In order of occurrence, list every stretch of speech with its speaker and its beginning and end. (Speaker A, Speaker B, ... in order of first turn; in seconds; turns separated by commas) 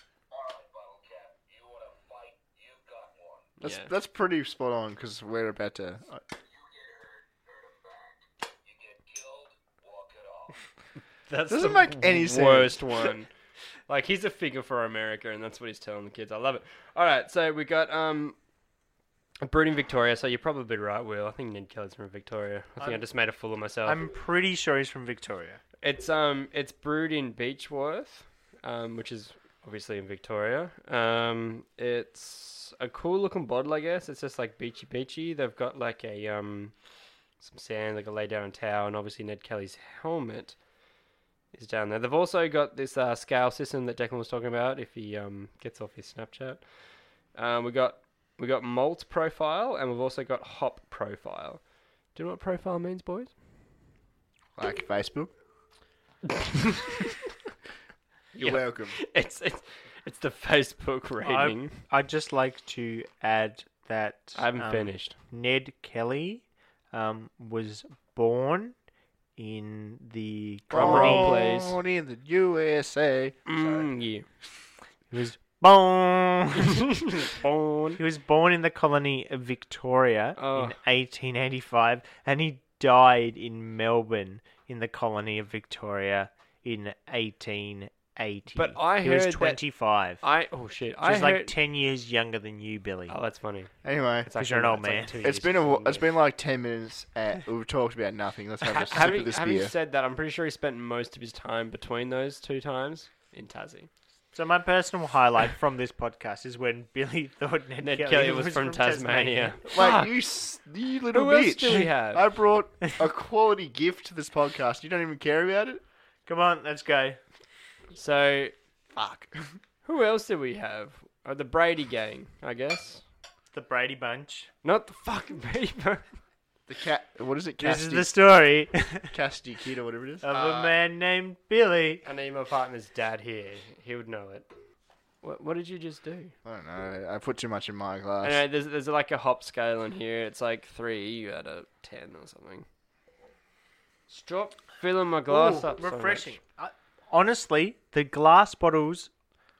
Speaker A: 0.3-3.5, Speaker B: 3.6-6.2, Speaker C: 3.6-3.9, Speaker A: 6.4-10.6, Speaker C: 11.3-13.3, Speaker B: 11.5-13.1, Speaker C: 13.9-18.4, Speaker C: 19.4-24.0, Speaker D: 23.8-25.6, Speaker C: 25.8-36.7, Speaker C: 37.4-40.5, Speaker C: 41.5-46.6, Speaker C: 47.3-51.6, Speaker C: 52.1-53.3, Speaker B: 54.6-55.3, Speaker C: 56.5-56.9, Speaker C: 58.3-61.8, Speaker B: 58.4-59.0, Speaker D: 61.2-68.7, Speaker C: 64.3-65.2, Speaker D: 69.4-71.3, Speaker B: 70.7-73.9, Speaker C: 70.7-71.8, Speaker C: 73.5-74.2, Speaker D: 75.1-76.8, Speaker C: 77.0-78.0, Speaker D: 78.0-90.2, Speaker C: 80.4-80.8, Speaker C: 88.5-89.6, Speaker C: 90.2-91.5, Speaker D: 91.0-93.1, Speaker C: 93.1-93.7, Speaker B: 93.8-94.3, Speaker C: 94.2-96.1, Speaker D: 94.4-95.1, Speaker B: 95.2-99.7, Speaker C: 98.7-103.9, Speaker D: 104.3-109.5, Speaker C: 107.8-110.2, Speaker B: 109.7-115.8, Speaker C: 111.1-112.3, Speaker D: 116.3-117.2, Speaker C: 117.9-118.5, Speaker B: 118.9-119.5, Speaker C: 119.8-123.0, Speaker D: 123.5-124.5, Speaker C: 124.6-126.0, Speaker B: 126.7-128.1, Speaker D: 127.6-129.1, Speaker B: 129.1-130.2, Speaker D: 130.2-132.0, Speaker C: 130.3-130.7, Speaker C: 132.0-134.5, Speaker C: 135.2-136.3, Speaker B: 136.4-138.4, Speaker C: 138.2-142.7, Speaker C: 144.1-146.4, Speaker D: 145.3-149.1